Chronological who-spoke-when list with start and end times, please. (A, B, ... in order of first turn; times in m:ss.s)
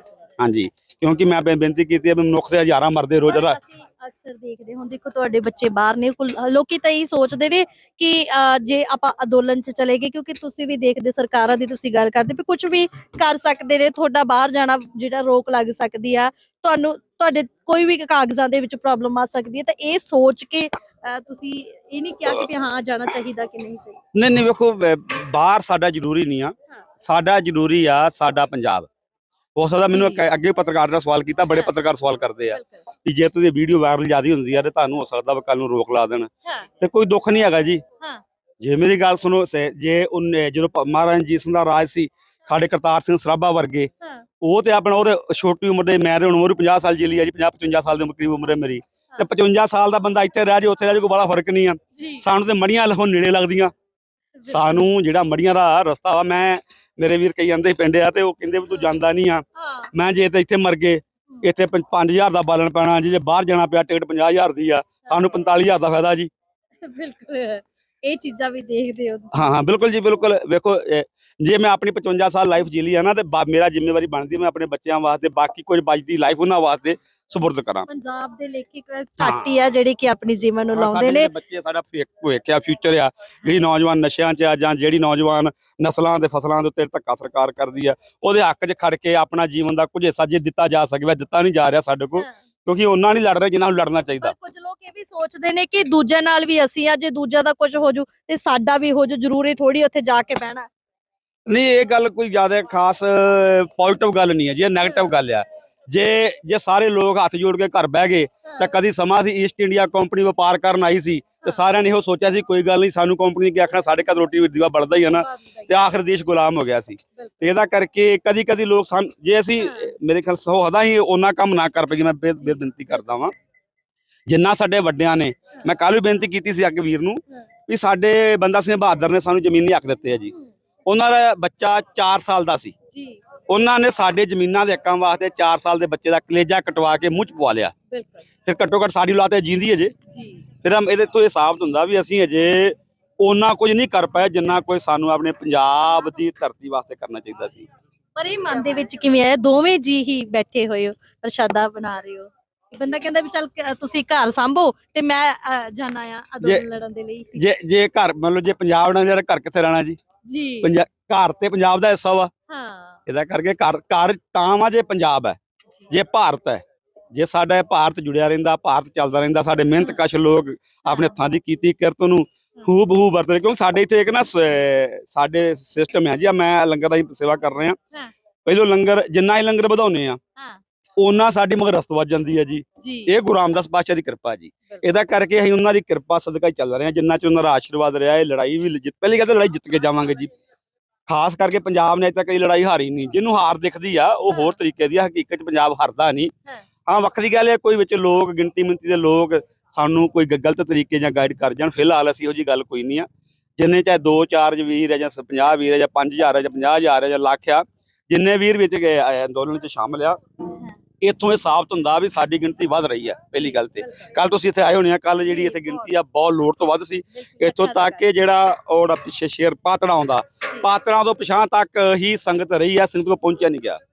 0:00.4-0:03.6 A
0:03.2-0:24.0 B
0:24.1-0:28.9 A
0:29.6-0:36.3 A
0:29.9-0:30.3 B
0:31.4-0:31.7 B
0:32.5-0:32.8 B
0:36.8-0:37.8 A
0:38.6-0:43.9 A
0:44.4-0:53.7 A
0:52.0-0:52.2 B
0:54.4-0:54.6 B
0:54.5-1:06.3 A
0:59.6-0:59.9 B
1:06.8-1:09.5 B
1:09.3-1:17.9 A
1:17.9-1:21.3 B
1:19.2-1:19.5 A
1:20.7-1:34.3 A
1:34.2-1:40.7 B
1:41.5-2:03.3 A
1:44.8-1:45.2 B
1:48.4-1:48.8 B
1:54.9-1:55.8 B
1:57.2-1:57.4 B
1:59.6-1:59.9 B
2:02.4-2:03.0 B
2:04.3-2:10.3 A
2:10.9-2:12.8 A
2:12.9-2:13.2 B
2:13.5-2:17.7 A
2:17.9-2:18.2 B
2:18.5-2:19.9 A
2:20.1-2:20.4 B
2:20.6-2:27.7 A
2:28.2-2:37.4 B
2:37.4-2:40.0 A
2:40.2-2:40.7 B
2:40.6-2:42.3 A
2:42.5-2:43.0 B
2:43.1-2:45.4 A
2:45.9-2:57.8 A
2:50.9-2:51.2 B
2:58.5-3:00.2 A
3:01.0-3:10.3 A
3:02.8-3:03.2 B
3:11.1-3:16.3 A
3:14.3-3:14.5 B
3:16.9-3:23.1 A
3:23.6-3:30.2 A
3:31.0-3:43.8 A
3:33.4-3:34.1 B
3:35.2-3:35.9 B
3:37.1-3:38.0 B